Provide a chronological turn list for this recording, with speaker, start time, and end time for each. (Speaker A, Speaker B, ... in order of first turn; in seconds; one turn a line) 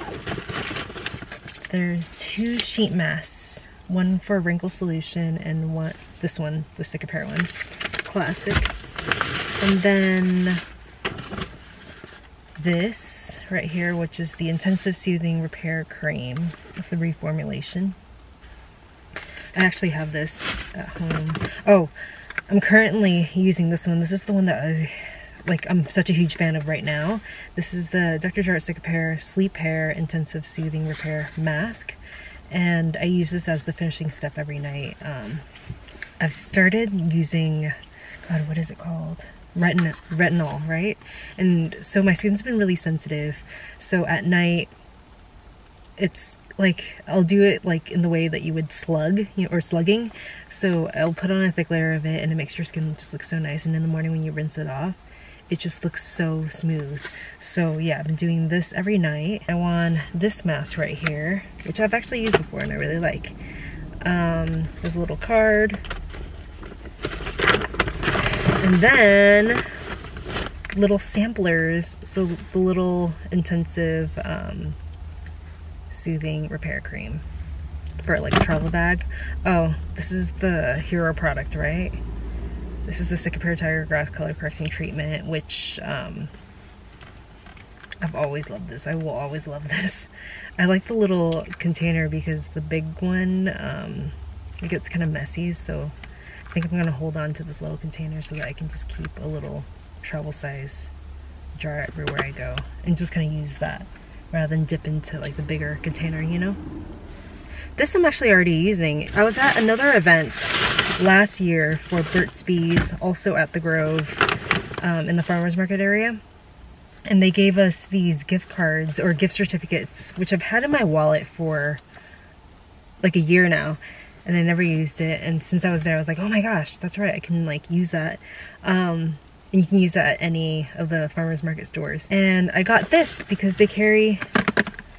Speaker A: 1.7-7.5
Speaker A: 8.0-8.7
Speaker A: 9.6-10.6
Speaker A: 12.6-18.0
Speaker A: 19.5-21.9
Speaker A: 22.5-32.0
Speaker A: 32.5-35.4
Speaker A: 36.2-37.7
Speaker A: 38.3-44.7
Speaker A: 46.0-55.0
Speaker A: 55.5-63.4
Speaker A: 64.0-65.8
Speaker A: 68.3-69.6
Speaker A: 70.7-74.8
Speaker A: 75.9-77.2
Speaker A: 78.0-82.0
Speaker A: 82.8-86.3
Speaker A: 88.0-95.9
Speaker A: 96.5-100.9
Speaker A: 101.5-106.6
Speaker A: 107.8-114.2
Speaker A: 114.8-116.2
Speaker A: 117.0-121.8
Speaker A: 123.0-134.3